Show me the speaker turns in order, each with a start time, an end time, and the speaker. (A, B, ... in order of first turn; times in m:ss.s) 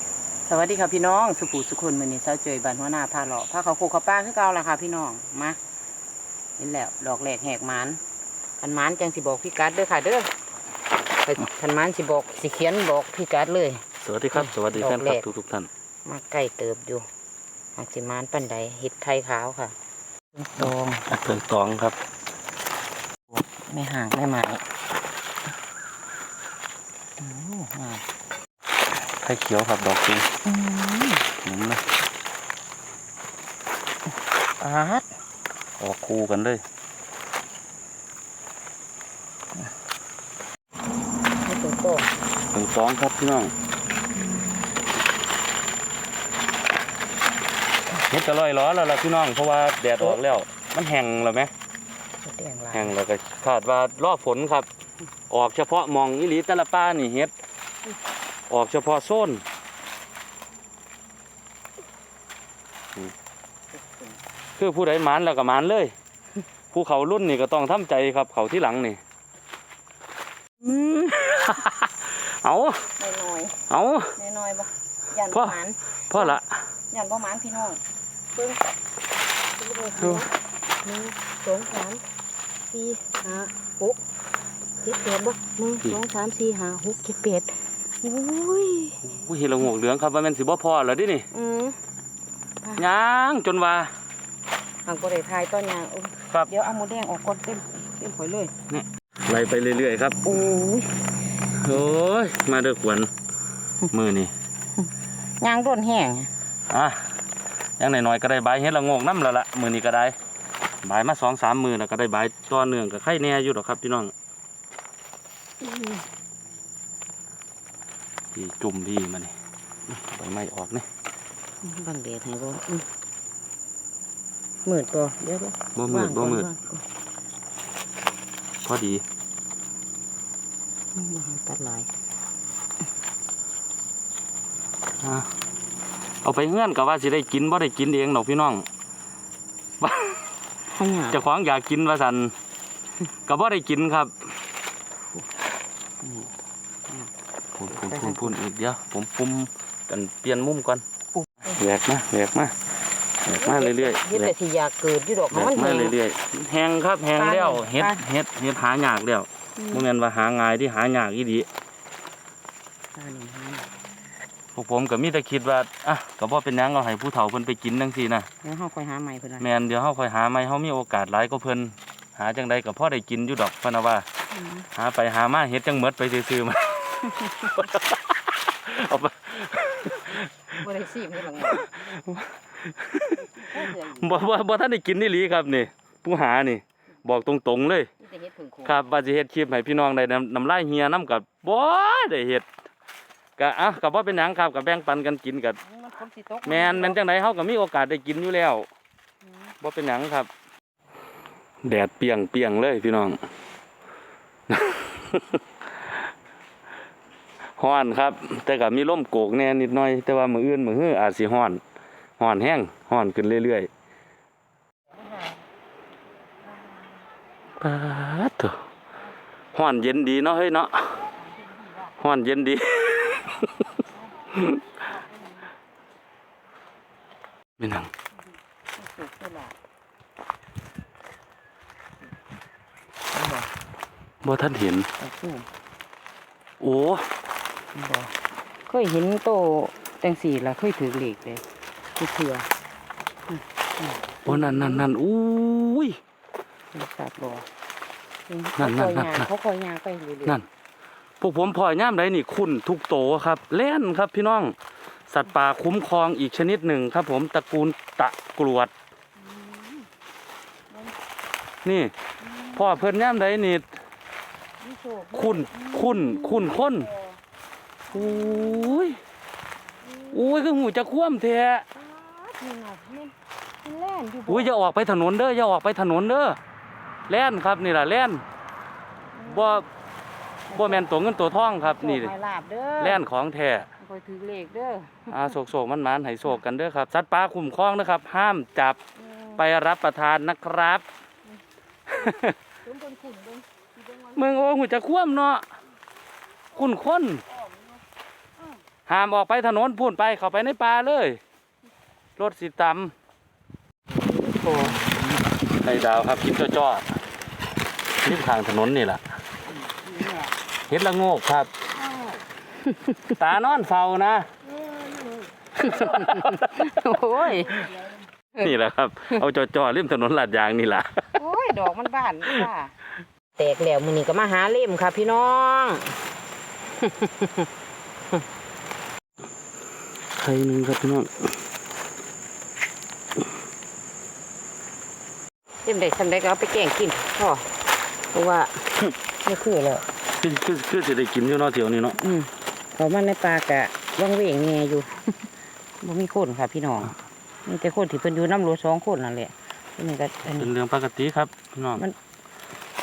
0:00.5-0:05.6 A
0:06.6-0:08.0 A
0:08.6-0:10.3 A
0:11.2-0:15.3 A
0:14.0-0:15.7 B
0:16.0-0:17.0 A
0:17.8-0:19.7 A
0:20.3-0:21.1 A
0:20.6-0:22.0 B
0:23.3-0:24.6 A
0:27.2-0:28.0 A
0:29.2-0:30.3 B
0:30.4-0:31.3 A
0:31.4-0:31.8 B
0:34.6-0:35.1 A
0:35.8-0:36.6 B
0:41.4-0:42.1 A
0:42.5-0:43.5 B
0:48.0-0:51.5 B
0:52.2-0:53.0 A
0:52.7-0:54.7 B
0:55.3-0:57.3 B
0:58.5-0:59.4 B
1:03.7-1:04.2 A
1:04.6-1:05.9 B
1:06.7-1:09.0 B
1:10.6-1:12.9 B
1:13.0-1:16.4 A
1:13.7-1:14.1 B
1:15.3-1:15.6 B
1:16.1-1:16.5 B
1:16.9-1:17.8 A
1:18.3-1:18.6 A
1:19.6-1:20.3 A
1:20.0-1:20.2 B
1:20.8-1:22.0 A
1:22.7-1:24.0 A
1:24.8-1:29.0 A
1:29.0-1:31.3 B
1:31.3-1:31.8 A
1:32.8-1:33.9 B
1:34.9-1:38.5 A
1:38.7-1:40.2 B
1:40.2-1:41.0 A
1:41.6-1:43.1 B
1:43.9-1:44.3 B
1:45.4-1:46.3 A
1:46.7-1:47.0 B
1:47.8-1:50.2 B
1:50.8-1:54.1 B
1:55.6-1:56.0 A
1:58.3-1:59.3 B
1:59.9-2:00.8 B
2:01.6-2:02.9 A
2:04.6-2:06.8 A
2:05.8-2:06.5 B
2:08.6-2:09.0 B
2:10.9-2:11.9 A
2:15.0-2:15.3 B
2:16.2-2:18.7 B
2:19.8-2:20.4 B
2:20.7-2:21.2 A
2:21.1-2:22.4 B
2:23.2-2:24.1 B
2:26.0-2:26.3 A
2:27.5-2:30.8 B
2:27.7-2:28.4 A
2:31.5-2:32.5 B
2:33.2-2:34.3 B
2:33.3-2:35.9 A
2:35.3-2:41.5 B
2:37.2-2:38.0 A
2:39.6-2:39.8 A
2:42.9-2:43.6 A
2:44.6-2:48.3 B
2:48.4-2:49.5 A
2:49.4-2:54.1 B
2:54.3-2:54.7 A
2:54.7-3:00.6 B
2:57.0-2:57.7 A
3:00.6-3:01.7 A
3:01.5-3:07.9 B
3:03.2-3:04.2 A
3:08.0-3:08.8 A
3:08.6-3:12.4 B
3:13.4-3:15.6 B
3:15.6-3:17.0 A
3:16.4-3:18.7 B
3:19.2-3:19.5 A
3:19.6-3:20.3 B
3:21.6-3:23.2 B
3:24.5-3:26.0 B
3:27.6-3:31.6 B
3:32.2-3:33.7 B
3:37.6-3:38.6 B
3:39.5-3:41.0 B
3:41.4-3:41.9 A
3:42.0-3:43.6 B
3:44.4-3:44.6 B
3:47.6-3:47.9 B
3:48.8-3:49.6 A
3:53.1-3:53.5 A
3:54.2-3:54.9 B
3:55.0-3:55.5 A
3:56.6-3:57.1 B
3:57.7-3:58.1 A
3:58.7-4:01.4 A
4:02.0-4:02.5 A
4:03.3-4:04.9 A
4:04.2-4:06.0 B
4:06.7-4:07.5 A
4:08.3-4:10.4 A
4:08.6-4:09.3 B
4:11.2-4:14.6 B
4:15.1-4:18.7 B
4:19.2-4:19.9 A
4:20.7-4:21.0 A
4:21.6-4:21.9 B
4:22.2-4:22.8 A
4:22.6-4:23.7 B
4:24.6-4:27.2 A
4:25.1-4:26.9 B
4:27.9-4:28.9 A
4:27.9-4:29.0 B
4:29.8-4:30.3 A
4:30.1-4:31.7 B
4:31.7-4:34.5 A
4:34.3-4:36.4 B
4:37.1-4:38.2 B
4:39.1-4:39.6 A
4:39.2-4:39.7 B
4:40.5-4:42.1 B
4:40.5-4:40.8 A
4:41.6-4:43.0 A
4:42.8-4:43.7 B
4:43.8-4:45.4 A
4:45.1-4:48.8 B
4:49.0-4:49.4 A
4:49.4-4:50.8 B
4:51.9-4:52.4 B
4:52.6-4:54.2 A
4:54.2-4:55.4 B
4:56.5-4:57.2 B
4:58.9-5:01.2 B
5:02.2-5:02.9 B
5:03.9-5:05.0 A
5:05.6-5:06.9 B
5:08.0-5:09.0 B
5:09.7-5:10.3 A
5:10.7-5:11.5 B
5:12.6-5:13.1 A
5:13.1-5:14.3 B
5:14.6-5:17.9 A
5:15.7-5:16.5 B
5:18.4-5:21.0 B
5:21.2-5:22.7 A
5:23.4-5:26.0 A
5:26.8-5:27.5 A
5:30.2-5:31.3 B
5:35.6-5:37.5 A
5:38.1-5:38.7 A
5:39.2-5:39.8 A
5:40.2-5:42.0 B
5:41.9-5:45.3 A
5:45.8-5:50.5 A
5:50.4-5:51.8 B